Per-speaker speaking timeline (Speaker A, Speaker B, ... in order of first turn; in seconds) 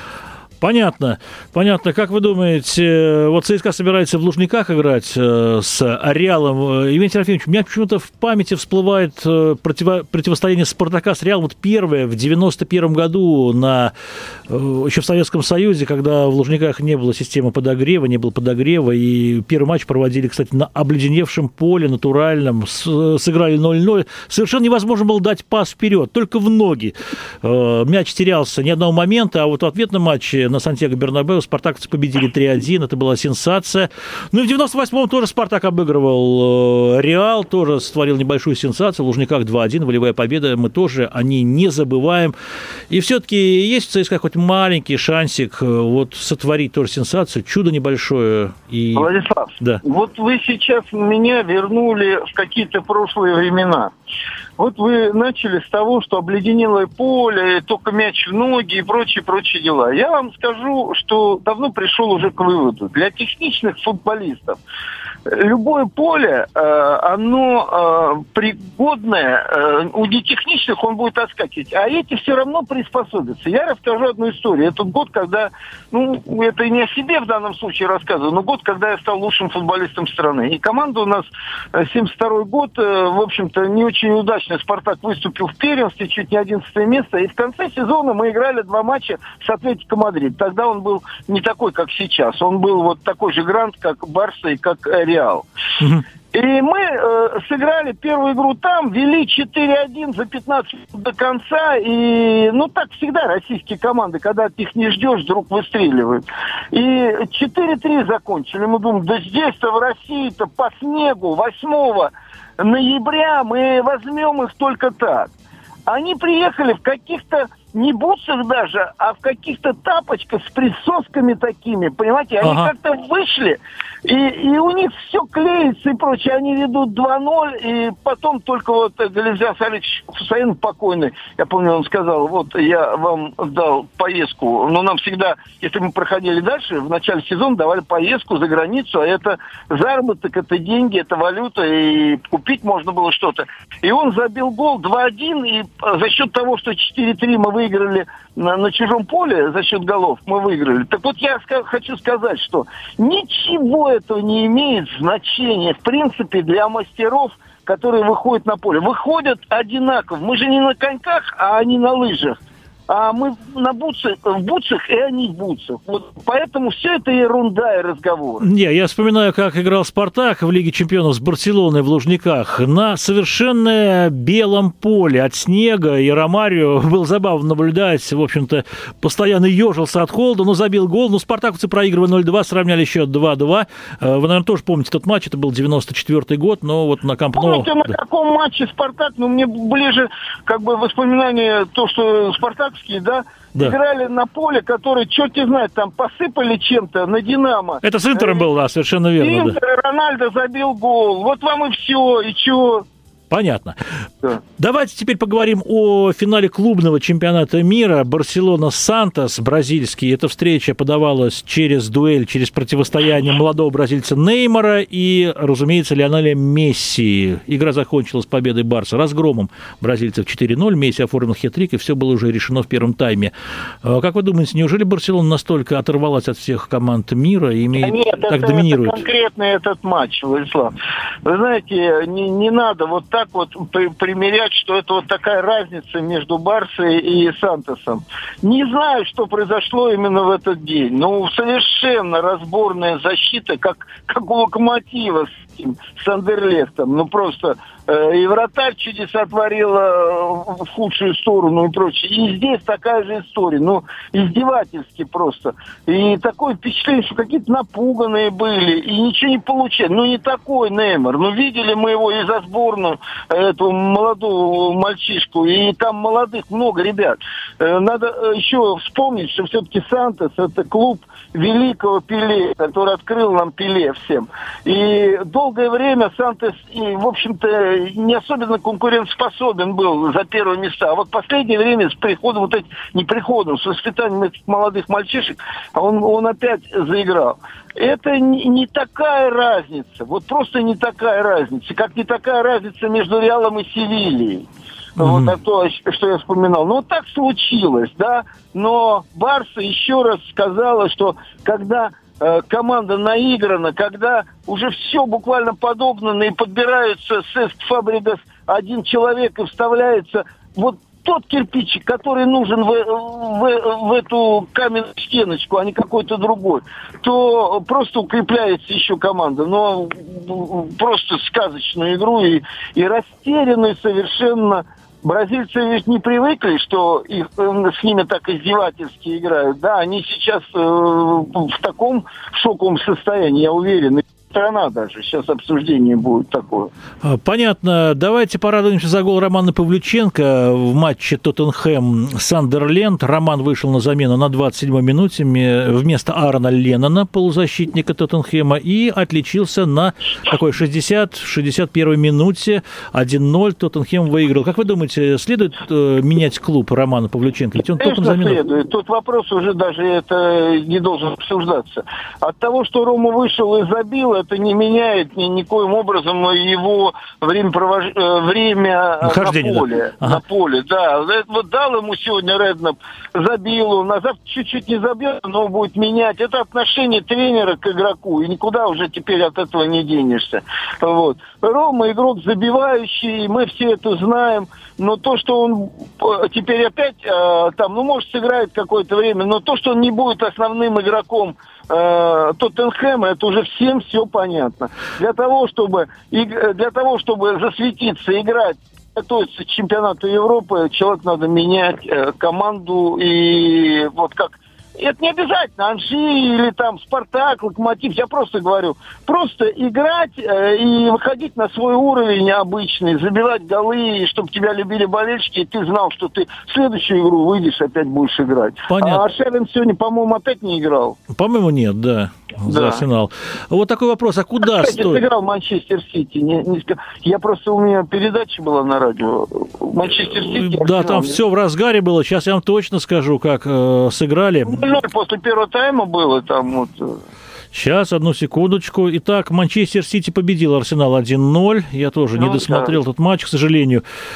Speaker A: 0.6-13.9, 14.5-42.4, 42.9-49.1, 122.4-122.7, 168.4-187.8, 197.8-199.6, 203.3-203.8, 204.6-223.3, 223.8-229.0, 295.0-295.3, 337.0-358.4, 369.0-370.2, 418.7-419.0, 421.1-425.0, 430.1-434.7, 437.5-443.8
Speaker B: 49.0-53.9, 54.6-64.6, 65.3-95.5, 96.3-115.3, 115.9-168.5, 187.3-198.5, 199.2-202.9, 227.8-230.7, 231.2-294.5, 295.0-336.7, 357.8-421.0, 422.5-422.8, 424.4-431.2, 434.5-437.0, 442.2-442.7